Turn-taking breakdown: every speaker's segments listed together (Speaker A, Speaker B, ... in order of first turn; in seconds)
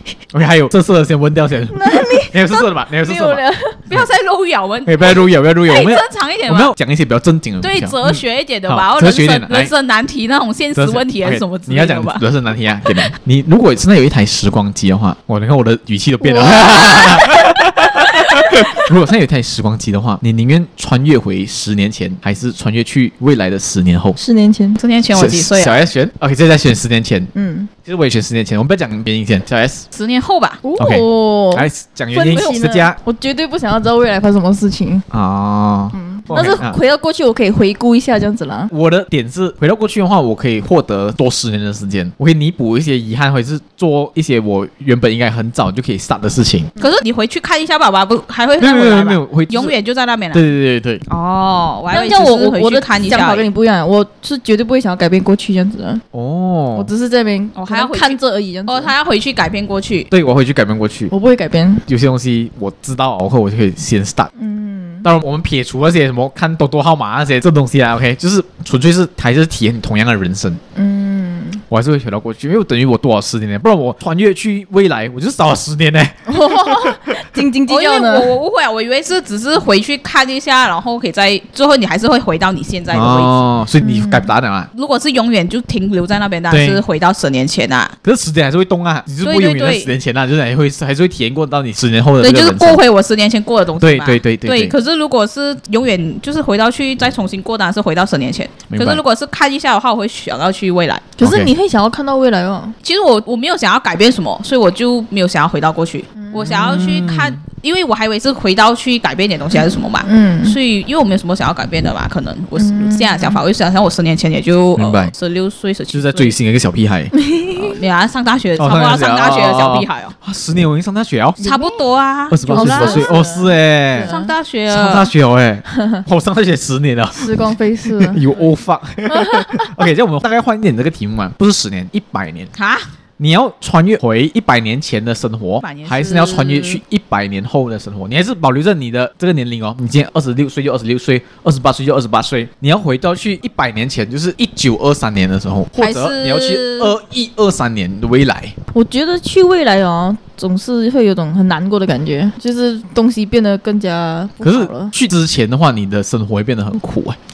Speaker A: 0.3-4.1, 4.8-9.7, 10.7-24.2, 25.1-27.3, 27.8-29.9, 30.8-33.0, 35.1-36.8, 38.7-46.7, 48.6-49.7, 50.3-51.0, 56.1-56.9, 60.1-61.1, 61.9-64.3, 65.0-70.6, 71.7-77.0, 82.9-84.7, 86.5-86.8, 88.0-92.8, 93.8-94.7, 98.7-99.0, 101.2-101.5, 106.4-107.4, 114.8-115.1, 115.9-117.1, 118.6-121.4, 122.3-124.1, 124.7-132.5, 133.2-148.5, 154.4-157.2
Speaker B: 1.7-3.8, 16.2-17.3, 24.2-24.8, 27.3-27.7, 30.6-35.0, 35.9-38.7, 51.9-56.0, 56.7-58.9, 61.1-61.9, 64.3-65.1, 70.8-71.6, 76.3-78.3, 83.8-84.3, 101.2-102.7, 106.2-106.9, 110.0-110.6, 112.5-113.4, 117.1-117.8, 121.4-121.8, 122.5-124.3, 125.7-126.0, 127.1-128.3, 129.1-129.8, 148.7-154.9
Speaker C: 3.9-6.7, 7.6-12.2, 24.8-25.8, 29.9-30.6, 32.2-32.7, 46.8-50.5, 51.1-53.5, 57.5-60.1, 77.7-83.4, 84.7-87.9, 89.2-89.9, 92.2-101.1, 102.8-116.3, 117.6-120.1, 121.4-123.1, 124.0-125.1, 132.5-132.8, 135.6-136.8, 145.8-146.9